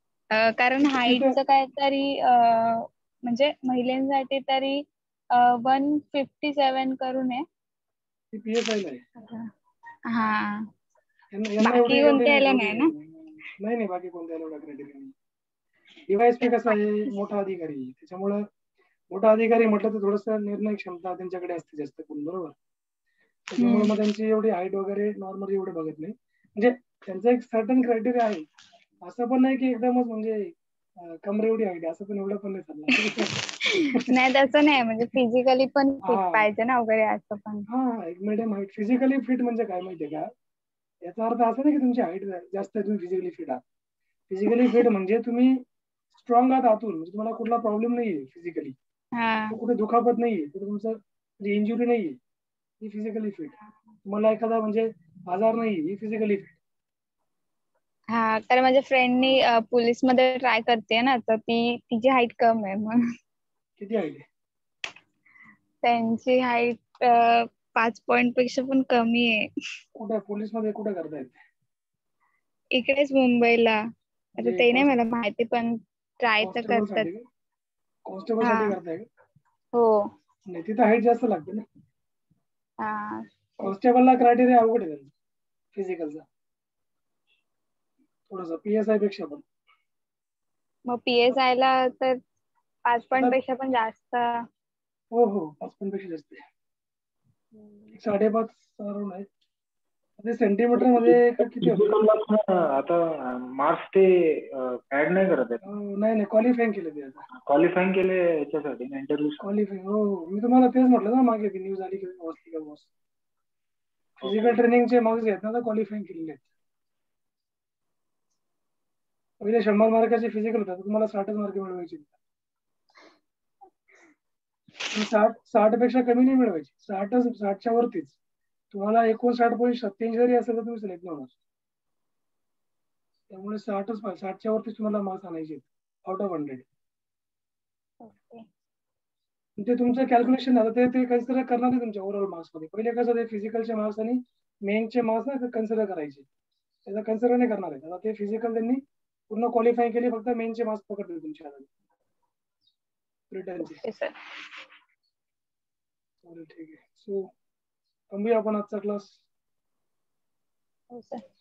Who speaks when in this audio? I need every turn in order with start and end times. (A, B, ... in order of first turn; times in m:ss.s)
0:00.3-0:07.4 A
0:01.0-0:01.4 B
0:08.3-0:09.0 B
0:09.2-0:09.5 A
0:10.1-0:10.7 A
0:11.3-0:13.1 B
0:11.6-0:12.9 A
0:13.6-0:15.1 B
0:16.1-0:18.4 B
0:19.1-0:22.6 B
0:23.5-0:28.5 B
0:23.6-0:23.9 A
0:29.0-0:34.1 B
0:33.2-0:37.7 A
0:36.0-0:36.5 B
0:37.7-0:40.3 B
0:41.0-0:43.6 B
0:44.3-0:45.6 B
0:46.1-0:48.8 B
0:49.2-0:49.6 A
0:49.5-0:52.2 B
0:52.8-0:56.6 B
0:58.1-1:03.0 A
1:03.8-1:04.2 B
1:05.8-1:09.5 A
1:10.0-1:11.4 B
1:12.7-1:13.8 A
1:14.4-1:14.9 B
1:14.4-1:17.1 A
1:16.4-1:17.2 B
1:18.1-1:19.0 B
1:18.4-1:18.8 A
1:19.8-1:20.0 A
1:20.5-1:21.6 B
1:22.8-1:23.7 A
1:23.6-1:25.1 B
1:25.7-1:26.2 B
1:28.3-1:29.4 B
1:30.9-1:32.2 A
1:32.9-1:34.4 A
1:35.1-1:36.4 B
1:38.0-1:39.3 B
1:40.2-1:41.9 B
1:40.8-1:45.7 C
1:45.6-1:47.2 B
1:47.4-1:49.4 C
1:49.4-1:52.9 B
1:54.2-1:54.6 C
1:54.2-1:56.4 B
1:59.4-2:02.1 B
2:04.9-2:08.2 B
2:08.7-2:11.3 B
2:13.3-2:16.6 B
2:18.0-2:18.5 A
2:19.6-2:26.3 B
2:26.9-2:31.7 B
2:33.3-2:33.8 B
2:33.8-2:34.2 A
2:36.2-2:37.3 B
2:38.1-2:39.2 B
2:40.9-2:41.2 A